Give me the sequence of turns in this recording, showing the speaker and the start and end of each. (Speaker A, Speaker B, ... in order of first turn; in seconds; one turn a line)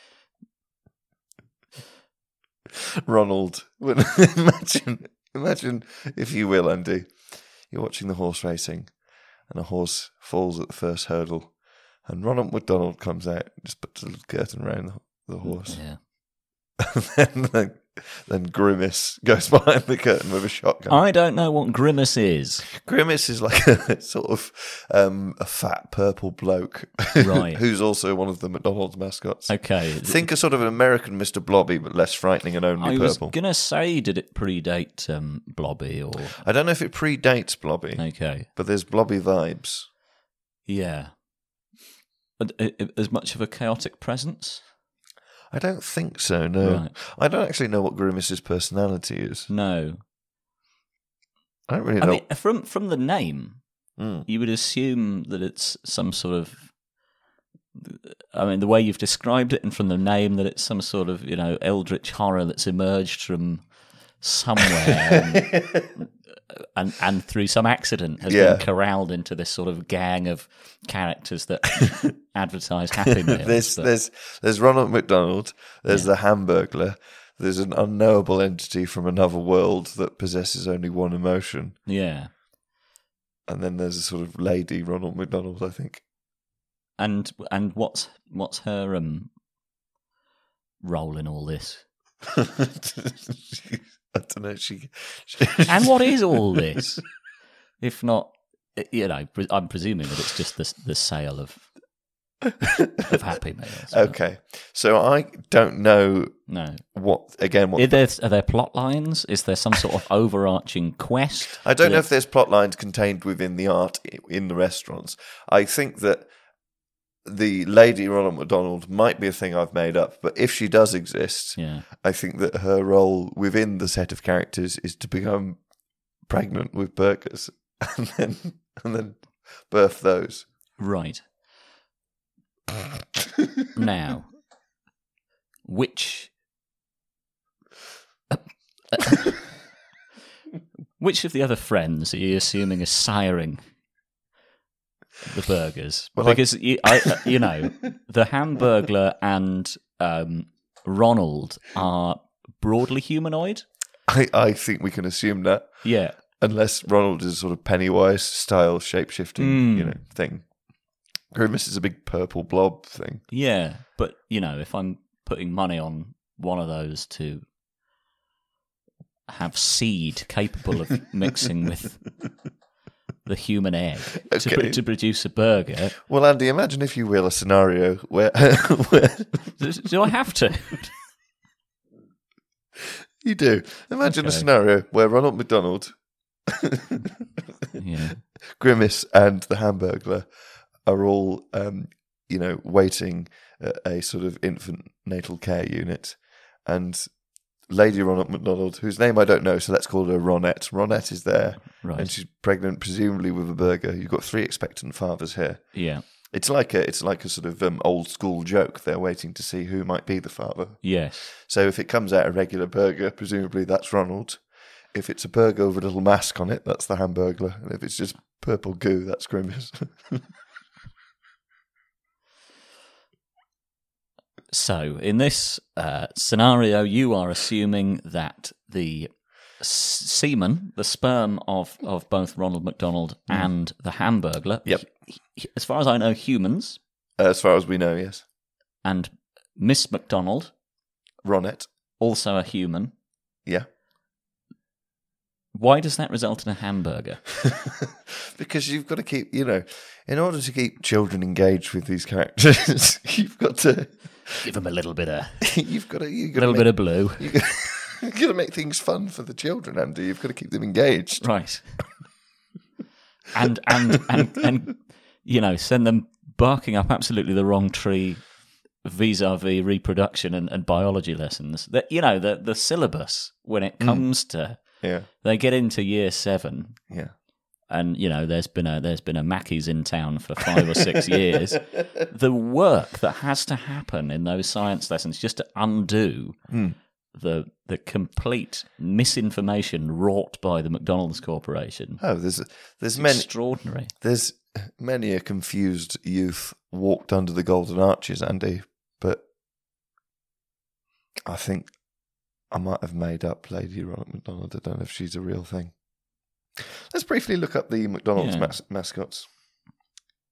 Speaker A: 3.1-15.8
Speaker B: 15.4-16.0
Speaker A: 16.8-21.0
Speaker B: 20.9-22.6
Speaker A: 22.8-33.4
Speaker B: 27.2-27.6
Speaker B: 29.5-30.3
Speaker B: 32.8-36.4
Speaker A: 36.4-39.9
Speaker B: 38.0-38.5
Speaker B: 40.7-41.2
Speaker B: 42.4-44.7
Speaker A: 45.5-49.5
Speaker B: 46.6-46.9
Speaker B: 49.5-50.0
Speaker A: 51.7-52.2
Speaker B: 52.0-56.8
Speaker A: 54.0-54.3
Speaker B: 57.8-73.9
Speaker A: 65.3-65.9
Speaker A: 68.2-68.7
Speaker A: 73.2-81.8
Speaker B: 81.9-82.3
Speaker A: 83.5-86.1
Speaker B: 87.0-89.3
Speaker B: 90.8-91.9
Speaker A: 92.3-96.6
Speaker B: 95.7-97.0
Speaker B: 97.8-101.7
Speaker A: 102.6-103.2
Speaker B: 103.0-104.2
Speaker A: 103.9-108.0
Speaker B: 106.5-106.8
Speaker B: 107.8-112.0
Speaker A: 111.6-116.3
Speaker A: 117.2-130.5
Speaker B: 121.6-121.8
Speaker B: 130.8-131.3
Speaker B: 133.8-134.4
Speaker B: 135.7-136.3
Speaker B: 141.0-143.6
Speaker B: 145.3-153.7
Speaker A: 146.2-147.3
Speaker A: 154.1-163.2
Speaker B: 155.8-156.2
Speaker B: 159.4-160.0
Speaker B: 163.3-167.4
Speaker B: 169.3-172.2
Speaker B: 173.2-176.0
Speaker A: 174.3-174.9
Speaker A: 176.1-179.6
Speaker B: 179.6-180.9
Speaker A: 183.2-186.9
Speaker B: 184.1-184.5
Speaker B: 187.8-188.2
Speaker A: 188.4-220.3
Speaker B: 201.8-202.1
Speaker B: 205.7-206.0
Speaker B: 210.8-211.2
Speaker B: 224.5-236.8
Speaker A: 237.2-238.3
Speaker B: 238.8-240.5
Speaker A: 241.2-241.7
Speaker B: 242.0-242.9
Speaker B: 245.5-247.2
Speaker A: 248.3-254.4
Speaker B: 254.4-255.6
Speaker A: 255.4-261.5
Speaker B: 256.4-257.6
Speaker B: 261.2-261.9
Speaker B: 263.3-276.9
Speaker A: 273.8-275.1
Speaker A: 276.9-277.1
Speaker B: 277.7-286.5
Speaker A: 286.5-286.8
Speaker B: 287.1-292.0
Speaker A: 292.0-299.2
Speaker B: 292.9-293.9
Speaker A: 301.2-309.3
Speaker B: 308.2-308.6